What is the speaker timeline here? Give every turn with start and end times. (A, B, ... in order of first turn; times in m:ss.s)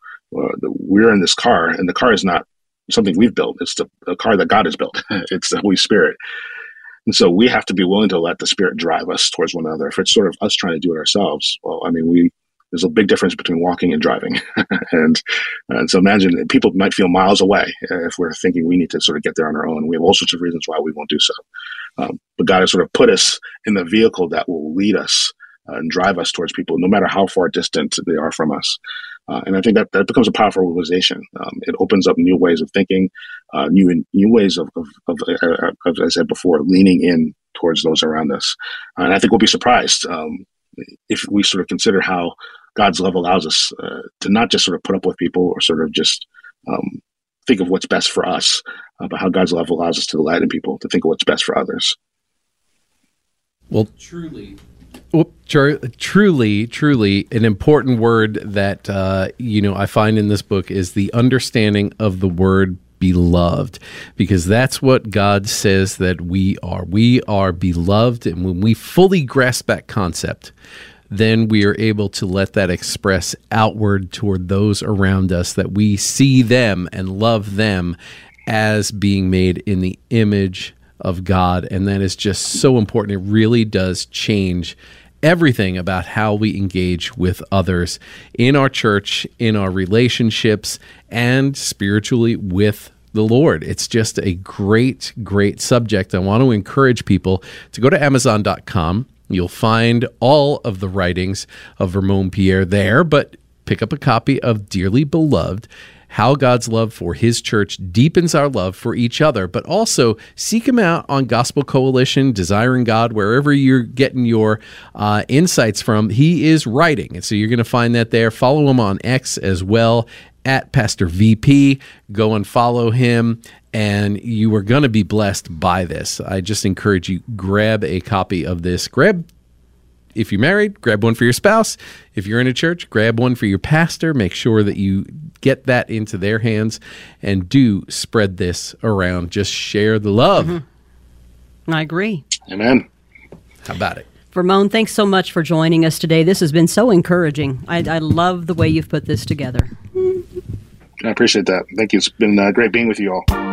0:00.3-0:06.2 A
0:07.0-0:21.3 A
0:22.0-0:40.4 A
0:41.1-0:52.0 A
0:53.7-0:54.6 B
0:55.1-1:10.5 B
1:11.1-2:09.2 B
2:10.1-2:20.6 B
2:21.7-2:22.2 C
2:22.5-2:22.8 A
2:23.6-2:24.0 B
2:24.3-2:29.7 C
2:31.0-2:33.2 A